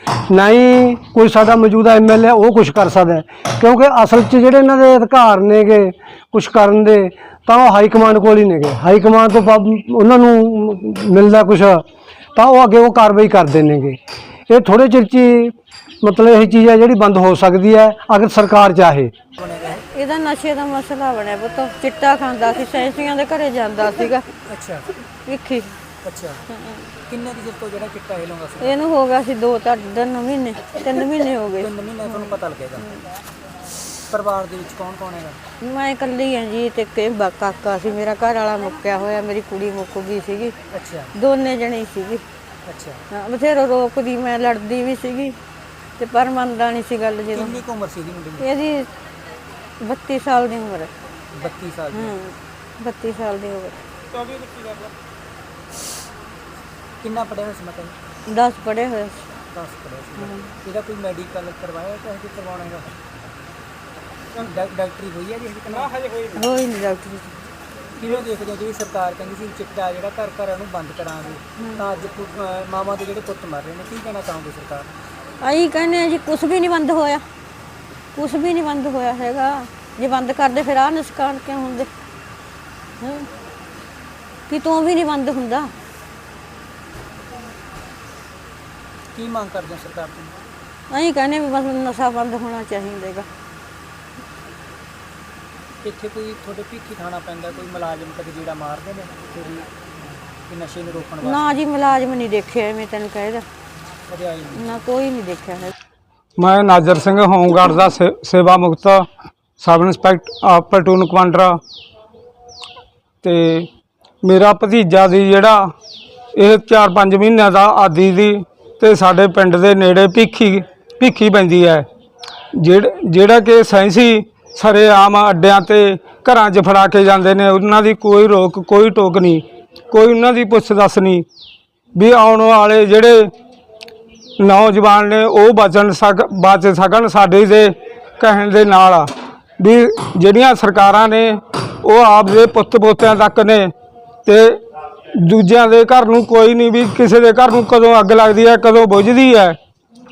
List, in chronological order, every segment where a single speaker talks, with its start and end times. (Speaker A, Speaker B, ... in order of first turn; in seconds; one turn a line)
Speaker A: 0.3-11.8
Speaker A: 12.3-14.0
Speaker A: 14.5-19.1
Speaker B: 19.4-19.8
Speaker C: 19.9-24.3
Speaker B: 24.5-24.9
Speaker C: 25.2-25.8
Speaker B: 26.1-26.4
Speaker C: 26.5-26.9
Speaker B: 27.1-28.8
Speaker C: 28.6-32.2
Speaker B: 31.6-32.8
Speaker B: 34.1-35.4
Speaker C: 35.6-40.5
Speaker B: 40.7-41.1
Speaker C: 41.1-42.2
Speaker B: 42.6-43.0
Speaker C: 43.1-45.4
Speaker C: 46.0-47.6
Speaker B: 47.4-48.5
Speaker C: 48.4-48.9
Speaker C: 49.8-50.9
Speaker B: 51.3-52.1
Speaker C: 51.9-53.8
Speaker B: 57.0-58.0
Speaker C: 58.3-59.2
Speaker B: 59.5-63.0
Speaker C: 60.2-60.5
Speaker B: 64.4-65.9
Speaker C: 66.4-67.3
Speaker B: 68.0-74.9
Speaker C: 71.6-71.8
Speaker C: 75.4-77.2
Speaker C: 78.1-81.9
Speaker C: 83.0-83.3
Speaker C: 84.5-85.7
Speaker B: 89.1-90.4
Speaker C: 90.9-93.3
Speaker B: 95.8-99.7
Speaker B: 100.5-101.4
Speaker C: 101.2-103.5
Speaker B: 104.1-104.6
Speaker C: 104.6-105.7
Speaker D: 106.4-109.1
Speaker D: 109.6-111.6
Speaker D: 113.2-113.7
Speaker D: 114.2-115.7
Speaker D: 116.4-121.8
Speaker D: 122.6-131.2
Speaker D: 131.9-133.3
Speaker D: 134.4-143.7
Speaker D: 144.2-144.6
Speaker D: 145.2-149.6